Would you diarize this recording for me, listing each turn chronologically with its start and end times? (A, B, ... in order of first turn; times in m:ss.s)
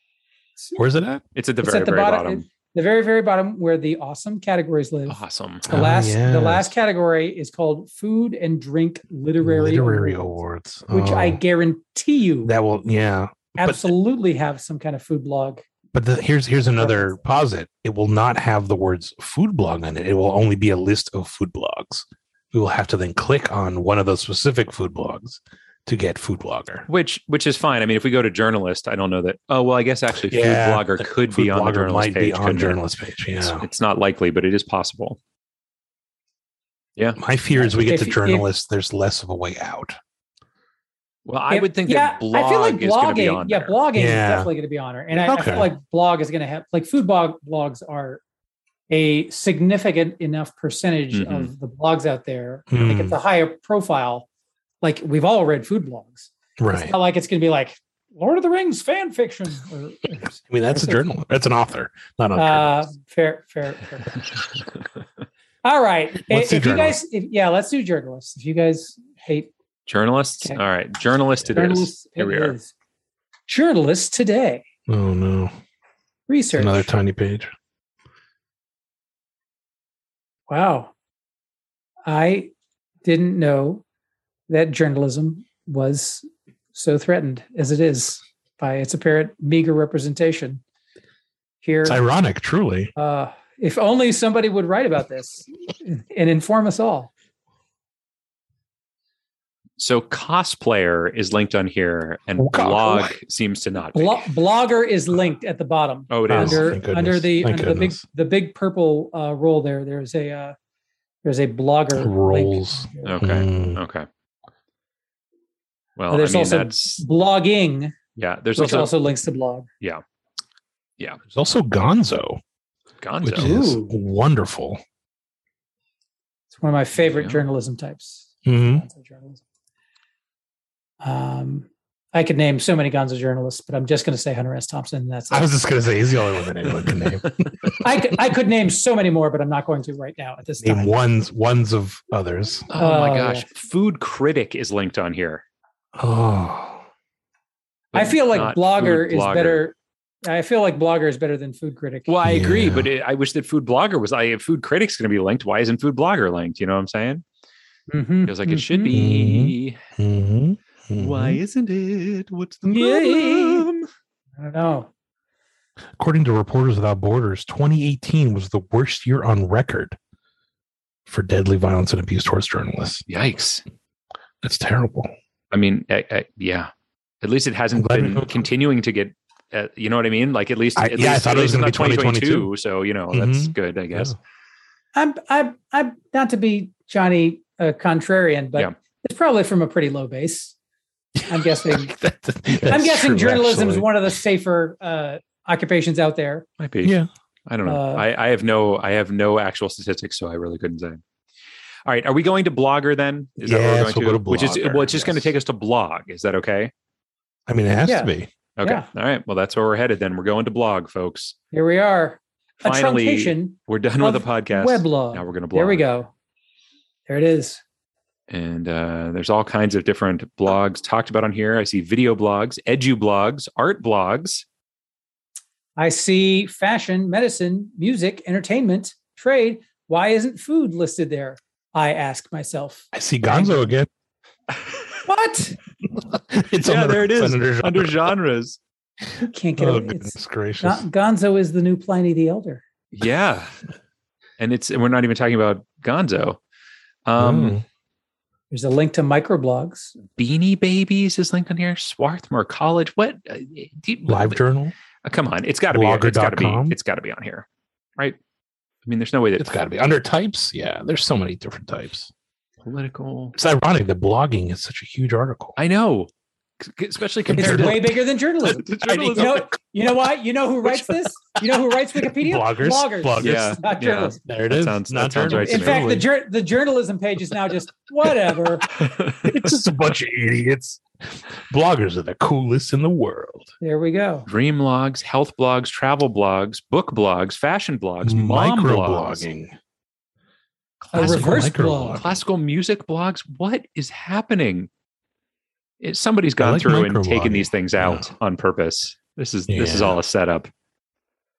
0:00.8-0:01.2 A
0:01.4-0:02.4 B
0:01.6-0:12.5 C
0:05.1-0:05.7 B
0:05.7-0:06.7 A
0:09.4-0:11.4 A
0:12.4-0:13.9 A
0:13.6-0:15.6 C
0:15.9-0:26.9 A
0:16.8-0:17.2 C
0:26.9-0:32.8 B
0:30.3-0:33.6 A
0:33.4-0:35.2 B
0:37.2-0:40.0 A
0:37.5-0:38.5 C
0:41.3-0:43.8 B
0:41.5-0:48.2 C
0:44.0-0:44.5 A
0:45.1-0:45.7 A
0:48.9-0:54.3 C
0:51.1-0:51.5 B
0:52.7-0:53.2 A
0:54.8-1:01.0 C
0:56.6-0:56.9 A
1:00.5-1:02.9 A
1:02.4-1:04.2 C
1:05.6-1:09.5 C
1:06.3-1:07.0 A
1:09.9-1:12.6 B
1:11.5-1:12.7 C
1:13.5-1:14.6 C
1:14.9-1:15.5 A
1:16.3-1:16.9 C
1:16.6-1:17.5 A
1:20.5-1:20.9 C
1:22.1-1:22.5 C
1:23.0-1:23.8 C
1:24.5-1:30.6 C
1:31.6-1:32.0 C
1:31.8-1:32.9 A
1:33.0-1:37.1 C
1:39.8-1:44.2 B
1:42.4-1:43.2 A
1:43.9-1:50.6 C
1:46.1-1:46.8 B
1:46.3-1:48.0 A
1:51.2-1:53.2 C
1:52.0-1:53.8 A
1:53.0-1:54.1 B
1:56.0-1:57.0 B
1:56.1-1:58.0 C
1:58.2-1:58.9 B
1:58.6-1:59.7 C
2:01.3-2:02.4 A
2:03.0-2:03.5 B
2:03.2-2:04.8 A
2:03.4-2:03.9 C
2:06.5-2:09.4 C
2:07.1-2:07.4 B
2:08.4-2:08.8 A
2:11.0-2:15.5 C
2:15.3-2:17.8 A
2:17.8-2:20.9 C
2:20.6-2:22.7 A
2:22.7-2:25.4 B
2:22.8-2:23.5 C
2:26.0-2:26.8 A
2:27.9-2:29.6 B
2:28.0-2:32.1 C
2:32.1-2:37.2 B
2:32.2-2:32.9 A
2:37.9-2:39.0 C
2:38.2-2:39.8 B
2:38.9-2:41.4 A
2:40.9-2:43.9 B
2:42.6-2:43.7 C
2:44.4-2:44.9 C
2:46.0-2:50.0 A
2:51.1-2:53.0 A
2:53.1-2:53.6 B
2:54.4-2:55.1 A
2:55.5-2:56.7 B
2:57.2-3:04.2 B
2:57.7-2:58.5 A
3:00.8-3:02.5 A
3:03.1-3:04.2 A
3:05.0-3:10.6 C
3:11.2-3:13.9 A
3:11.3-3:11.9 C
3:12.6-3:16.5 C
3:16.6-3:17.0 B
3:16.8-3:17.1 A
3:17.5-3:21.0 B
3:17.6-3:18.0 C
3:21.9-3:26.7 B
3:23.4-3:25.3 A
3:27.5-3:28.3 A
3:27.9-3:28.1 C
3:28.6-3:31.4 B
3:31.5-3:36.1 C
3:32.6-3:35.8 B
3:37.1-3:37.6 C
3:38.3-3:44.4 B
3:45.8-3:53.7 C
3:52.9-3:53.9 A
3:54.6-3:54.8 B
3:55.1-3:55.6 C
3:56.0-3:58.1 A
3:56.6-3:58.6 B
3:59.2-4:02.6 C
3:59.6-4:00.8 A
4:02.9-4:03.5 B
4:04.4-4:06.4 B
4:07.1-4:07.6 B
4:07.2-4:07.6 A
4:08.5-4:10.0 C
4:10.2-4:14.4 B
4:14.0-4:14.7 A
4:15.0-4:17.5 B
4:15.7-4:16.8 A
4:18.8-4:19.5 B
4:19.4-4:22.1 A
4:22.6-4:23.4 B
4:23.4-4:25.6 A
4:25.6-4:26.1 B
4:26.6-4:29.5 B
4:27.3-4:27.9 A
4:27.4-4:34.2 C
4:32.2-4:33.6 A
4:33.2-4:35.9 B
4:34.2-4:36.1 A
4:35.3-4:38.7 C
4:38.8-4:39.4 B
4:39.2-4:43.5 A
4:43.6-4:44.3 C
4:44.3-4:49.3 B
4:48.0-4:49.6 A
4:50.9-4:54.7 B
4:50.9-4:52.2 A
4:50.9-4:52.0 C
4:55.8-5:00.5 B
4:56.4-4:58.1 A
4:59.5-5:00.0 A